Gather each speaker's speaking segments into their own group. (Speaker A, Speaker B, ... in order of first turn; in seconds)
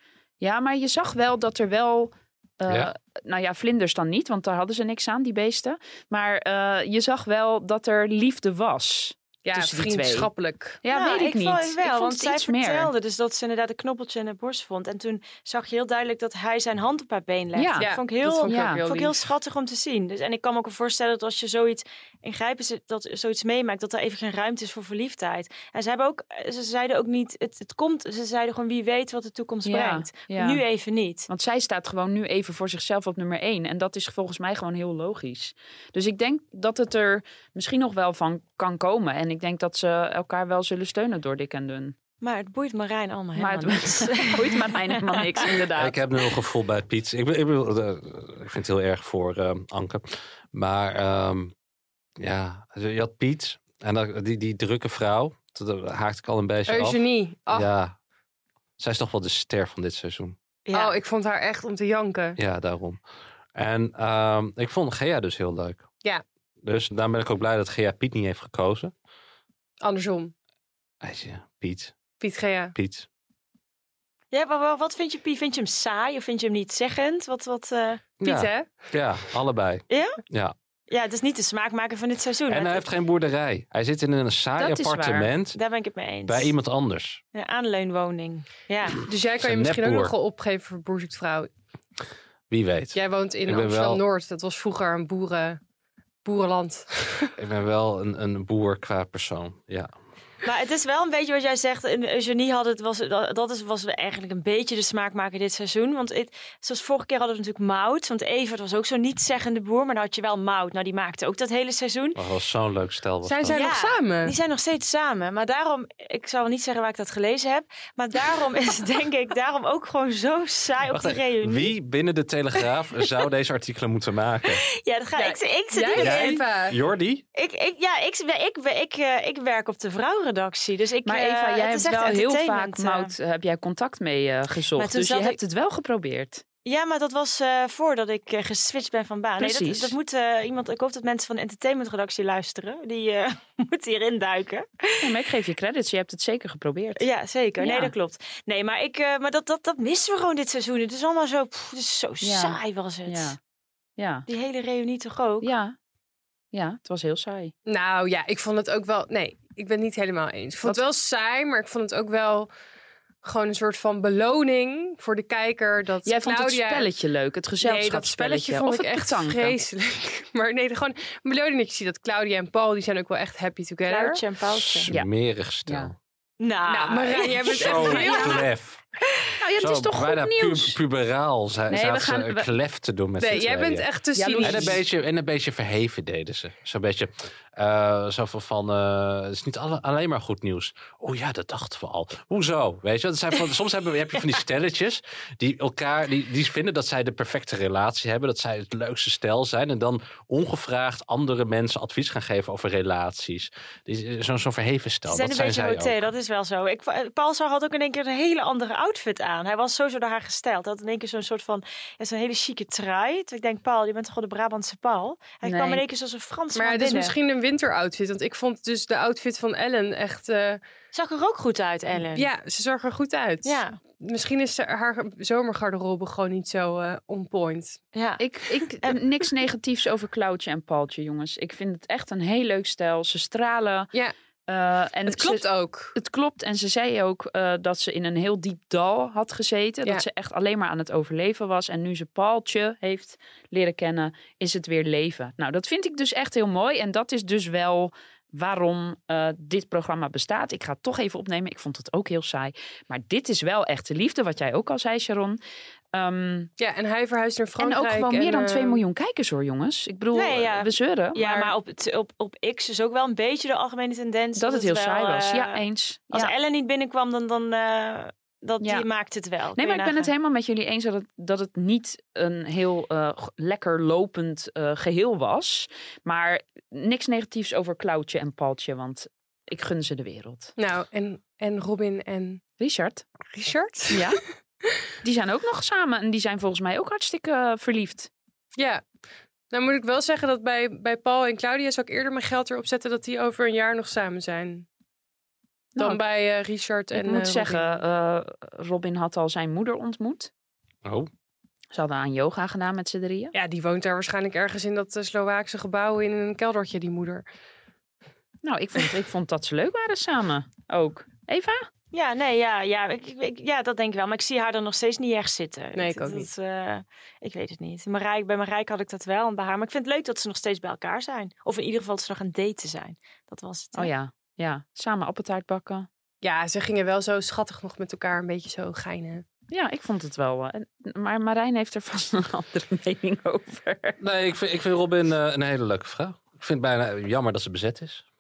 Speaker A: 0.4-10.3, 10.8-12.9, 17.6-17.9, 18.5-18.8, 29.6-30.6, 31.3-42.0, 43.4-46.0, 84.6-85.3, 131.0-136.4, 139.4-139.9, 145.0-147.1, 147.6-147.9, 152.2-153.4, 154.0-154.2, 155.4-155.8, 156.5-157.5, 166.0-169.6, 175.7-175.9, 177.9-178.4, 179.4-180.8, 181.7-182.5, 184.1-184.8, 215.4-215.8, 228.2-233.9, 234.5-255.4, 255.9-256.5, 257.6-261.5, 264.4-266.3, 268.6-268.9, 269.6-280.5, 282.6-283.0, 283.9-284.2, 285.0-288.1, 295.8-296.0, 296.9-300.3, 301.7-303.3, 308.4-311.7, 323.7-325.9, 329.5-334.0
Speaker B: 9.4-10.8, 17.8-19.2, 56.7-57.7, 60.7-62.4, 69.8-70.3, 72.2-72.7, 78.2-78.7, 89.0-91.5, 92.9-95.6, 96.2-97.3, 113.2-114.3, 125.2-126.8, 157.7-162.5, 163.2-166.9, 167.6-174.2, 176.7-178.4, 183.2-184.8, 216.5-220.6, 222.1-227.8, 235.1-235.9, 256.6-258.8, 280.6-282.4, 283.3-284.0, 288.6-288.8, 289.5-294.6, 295.8-297.8, 303.3-307.2, 315.7-316.3, 326.2-329.2
Speaker C: 10.9-31.3, 42.2-45.2, 60.6-61.0, 74.3-78.0, 79.9-80.2, 80.9-82.8, 85.5-86.5, 87.3-89.0, 100.4-112.2, 113.5-121.7, 124.8-126.4, 127.3-133.1, 134.8-135.4, 136.6-145.1, 147.0-153.3, 154.3-155.5, 173.8-174.9, 176.4-178.2, 205.1-217.1, 220.9-222.3, 223.4-223.8, 227.9-228.2, 260.1-270.1, 311.9-323.9
Speaker D: 45.8-51.5, 52.2-57.9, 58.8-60.4, 62.4-63.0, 63.5-65.8, 66.6-68.9, 71.0-72.0, 72.7-73.1, 78.2-80.5, 82.5-85.6, 86.2-87.2, 89.4-90.1, 92.5-94.0, 97.4-99.9, 112.1-113.6, 120.9-124.7, 126.0-127.2, 174.5-175.9, 177.5-178.8, 179.6-183.9, 184.4-206.1, 300.8-301.1, 334.0-338.0